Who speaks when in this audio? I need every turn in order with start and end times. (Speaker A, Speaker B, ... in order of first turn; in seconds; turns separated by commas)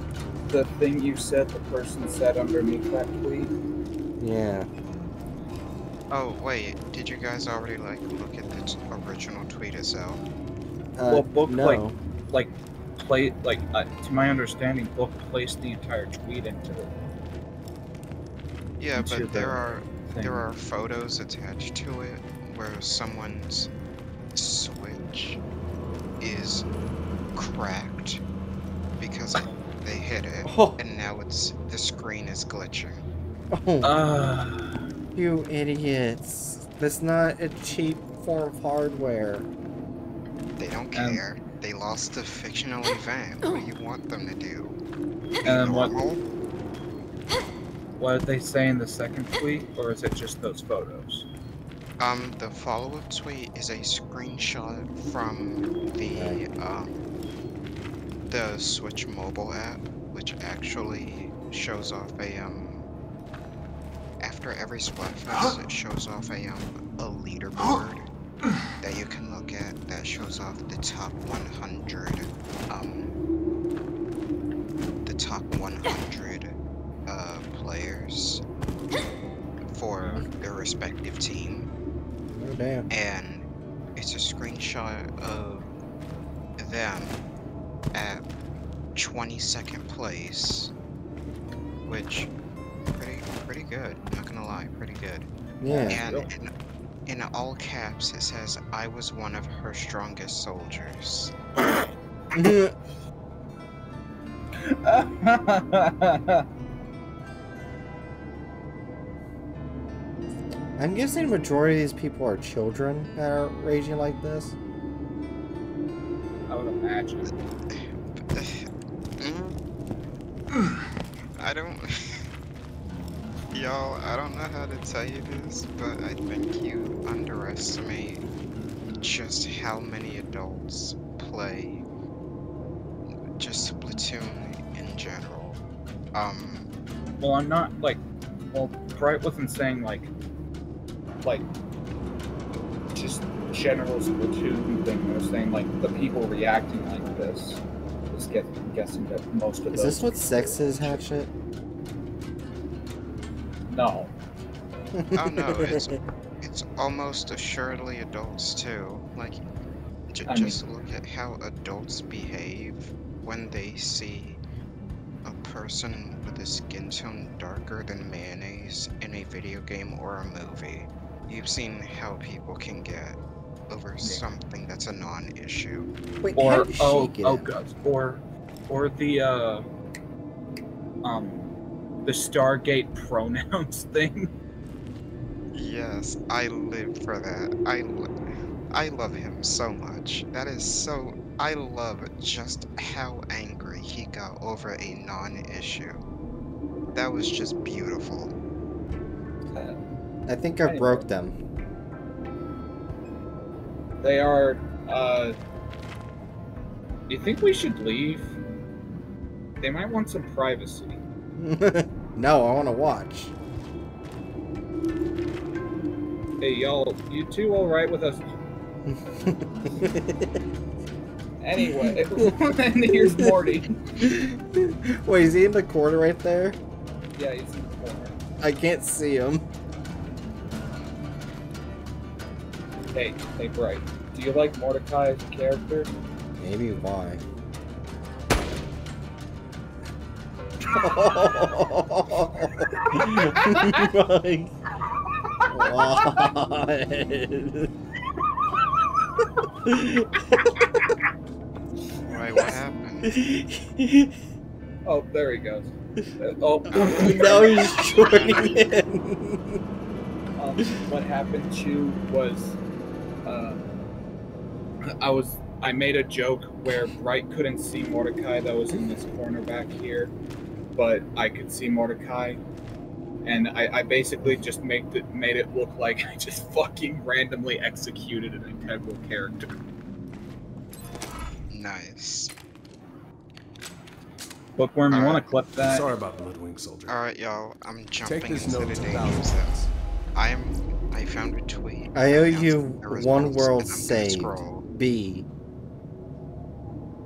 Speaker A: 0.5-3.5, Speaker B: 4.2-4.7, Speaker C: 6.1-10.2, Speaker B: 10.9-12.0, Speaker A: 11.1-16.9, Speaker C: 18.8-23.7, Speaker B: 19.0-19.5, Speaker A: 19.2-19.5, Speaker A: 20.1-20.5, Speaker C: 24.3-25.4, Speaker C: 26.2-26.7, Speaker C: 27.3-28.2, Speaker C: 29.0-33.0, Speaker B: 30.4-30.8, Speaker B: 33.5-33.9, Speaker A: 33.8-34.9, Speaker B: 35.1-39.5, Speaker C: 40.6-44.8, Speaker A: 40.9-41.2, Speaker C: 45.4-46.2, Speaker A: 45.4-46.0, Speaker A: 48.0-51.3, Speaker C: 52.0-57.0, Speaker B: 56.1-56.4, Speaker C: 58.3-62.9, Speaker C: 64.2-68.1, Speaker C: 68.8-73.2, Speaker C: 75.0-78.4, Speaker C: 79.7-81.7, Speaker B: 82.3-82.9, Speaker C: 82.9-85.7, Speaker C: 86.6-87.2, Speaker C: 87.9-88.2, Speaker C: 88.9-90.7, Speaker C: 91.8-92.3, Speaker C: 92.9-95.3, Speaker B: 95.6-96.0, Speaker A: 95.6-96.3, Speaker C: 95.9-96.5, Speaker C: 97.0-101.3, Speaker B: 102.3-102.7, Speaker A: 104.6-106.5, Speaker B: 110.8-114.5, Speaker A: 116.5-117.3, Speaker C: 117.7-119.6, Speaker C: 121.4-122.3, Speaker C: 123.5-128.2, Speaker C: 129.0-131.9, Speaker C: 133.1-135.6, Speaker C: 136.1-136.7, Speaker A: 137.2-140.1, Speaker A: 142.9-151.1, Speaker B: 149.7-151.3, Speaker A: 153.7-154.1, Speaker B: 154.9-155.9, Speaker C: 155.1-159.4, Speaker C: 160.1-164.4, Speaker A: 160.3-160.6, Speaker C: 165.2-175.9, Speaker B: 176.2-177.5, Speaker A: 176.3-179.6, Speaker A: 181.0-184.3, Speaker C: 185.5-188.1, Speaker C: 188.7-196.0, Speaker C: 196.9-198.3, Speaker A: 199.5-199.8, Speaker B: 200.3-201.3, Speaker A: 200.6-201.1, Speaker A: 204.0-205.3, Speaker A: 207.1-208.4, Speaker A: 209.6-211.0, Speaker B: 211.4-213.3, Speaker A: 216.4-218.3, Speaker B: 218.9-220.4, Speaker A: 221.4-223.7, Speaker B: 221.6-222.3, Speaker B: 222.9-226.6, Speaker A: 227.2-228.2, Speaker B: 228.4-229.4, Speaker A: 232.9-235.9, Speaker B: 236.4-237.2, Speaker B: 240.7-244.5, Speaker A: 242.9-243.9, Speaker B: 245.5-247.7, Speaker B: 249.6-250.8, Speaker C: 252.0-253.2, Speaker B: 253.0-254.1, Speaker A: 254.8-258.5, Speaker C: 256.7-258.7, Speaker B: 256.7-259.6, Speaker A: 260.4-262.6, Speaker A: 263.2-263.6, Speaker A: 265.0-270.1, Speaker A: 270.7-272.4, Speaker A: 273.2-279.5, Speaker C: 281.5-282.3, Speaker A: 284.6-285.9, Speaker C: 284.9-285.3, Speaker D: 285.6-286.9, Speaker C: 286.9-289.6, Speaker D: 288.0-289.7, Speaker C: 290.1-294.7, Speaker B: 291.9-295.3